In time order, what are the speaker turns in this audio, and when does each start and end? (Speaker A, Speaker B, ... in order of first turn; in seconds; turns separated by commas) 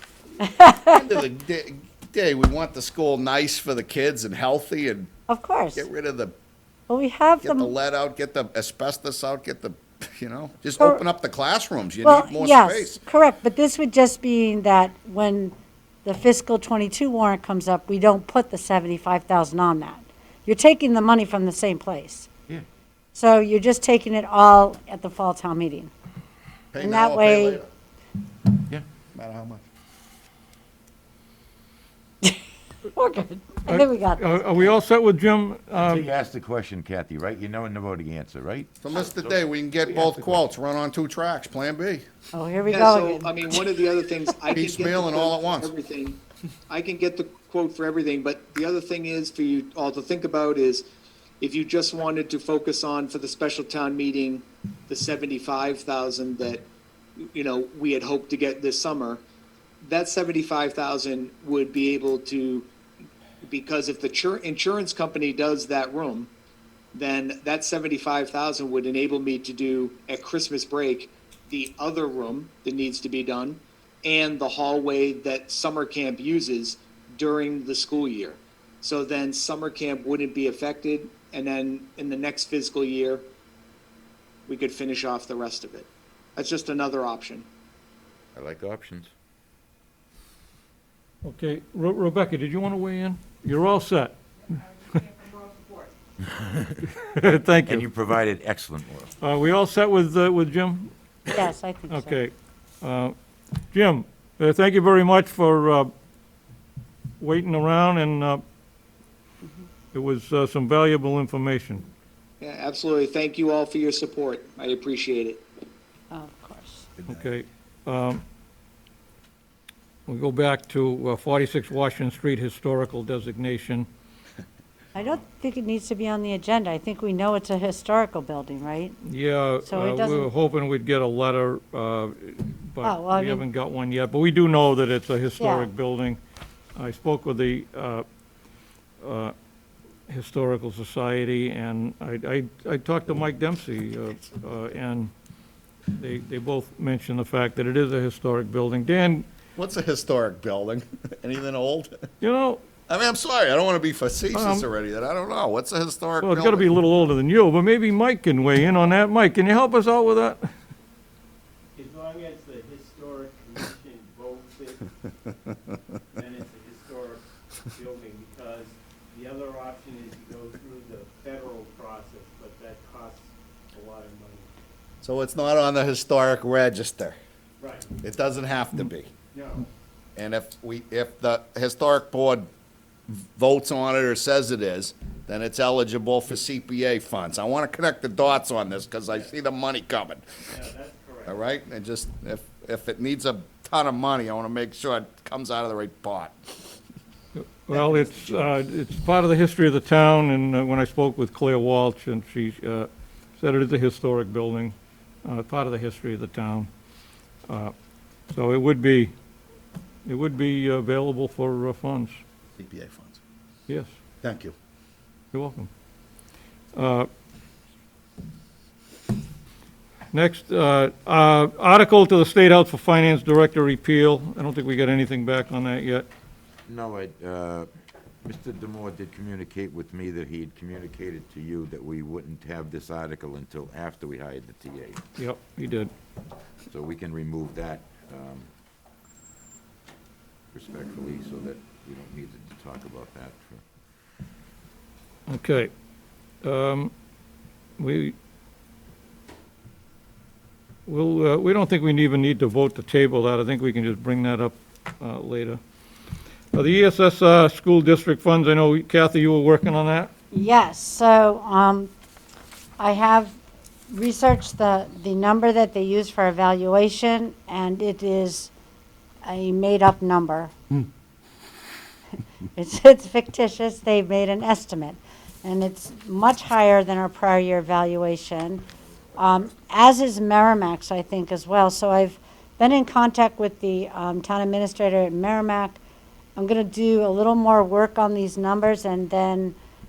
Speaker A: 0.4-1.0, Speaker B: 0.9-5.1, Speaker A: 5.3-5.8, Speaker B: 5.8-6.3, Speaker A: 6.9-7.7, Speaker B: 7.4-13.0, Speaker A: 12.0-15.5, Speaker A: 16.1-22.3, Speaker A: 23.1-25.9, Speaker B: 26.7-27.7, Speaker A: 26.8-27.6, Speaker B: 29.1-29.6, Speaker A: 32.9-34.7, Speaker C: 33.7-36.1, Speaker D: 35.7-40.4, Speaker B: 38.8-42.0, Speaker A: 42.3-43.7, Speaker E: 42.7-50.8, Speaker B: 44.5-45.7, Speaker E: 51.4-56.6, Speaker E: 57.2-59.2, Speaker E: 59.8-62.7, Speaker E: 63.4-66.3, Speaker E: 66.9-83.2, Speaker E: 84.5-87.5, Speaker D: 88.3-89.1, Speaker C: 91.2-94.2, Speaker D: 96.3-96.8, Speaker C: 97.0-97.8, Speaker D: 97.7-99.1, Speaker C: 99.2-100.9, Speaker A: 101.3-102.2, Speaker C: 101.9-103.1, Speaker C: 103.7-105.9, Speaker C: 107.2-108.4, Speaker C: 109.9-111.8, Speaker E: 112.4-115.5, Speaker A: 116.1-116.9, Speaker C: 117.1-118.2, Speaker C: 120.1-123.9, Speaker A: 124.9-129.0, Speaker C: 129.1-136.2, Speaker A: 129.6-130.3, Speaker A: 132.8-133.4, Speaker A: 135.4-135.7, Speaker C: 136.8-138.0, Speaker C: 139.0-139.3, Speaker C: 140.1-145.1, Speaker C: 145.9-149.2, Speaker B: 149.6-151.9, Speaker C: 152.2-152.6, Speaker B: 152.9-156.7, Speaker C: 154.3-154.7, Speaker C: 156.2-160.5, Speaker F: 161.8-164.8, Speaker F: 166.2-174.5, Speaker B: 175.0-177.2, Speaker F: 177.6-177.9, Speaker B: 178.0-179.1, Speaker F: 179.3-179.7, Speaker B: 180.2-182.5, Speaker B: 183.1-190.2, Speaker F: 190.5-191.4, Speaker B: 191.3-196.8, Speaker C: 197.4-206.7, Speaker C: 207.5-207.7, Speaker C: 208.3-209.1, Speaker C: 210.1-212.2, Speaker B: 212.6-213.2, Speaker C: 213.7-213.9, Speaker B: 214.2-214.5, Speaker C: 215.3-215.7, Speaker C: 216.7-217.1, Speaker C: 220.1-226.1, Speaker D: 226.7-227.7, Speaker D: 228.2-235.0, Speaker C: 235.2-235.9, Speaker D: 236.7-238.5, Speaker D: 240.5-243.7, Speaker C: 245.3-245.7, Speaker C: 246.4-246.9, Speaker C: 247.8-248.1, Speaker C: 250.9-255.6, Speaker C: 256.5-260.1, Speaker A: 260.3-261.9, Speaker A: 262.8-263.4, Speaker A: 263.9-268.5, Speaker A: 269.2-270.5, Speaker A: 272.6-278.6, Speaker A: 279.2-285.8, Speaker A: 286.4-289.6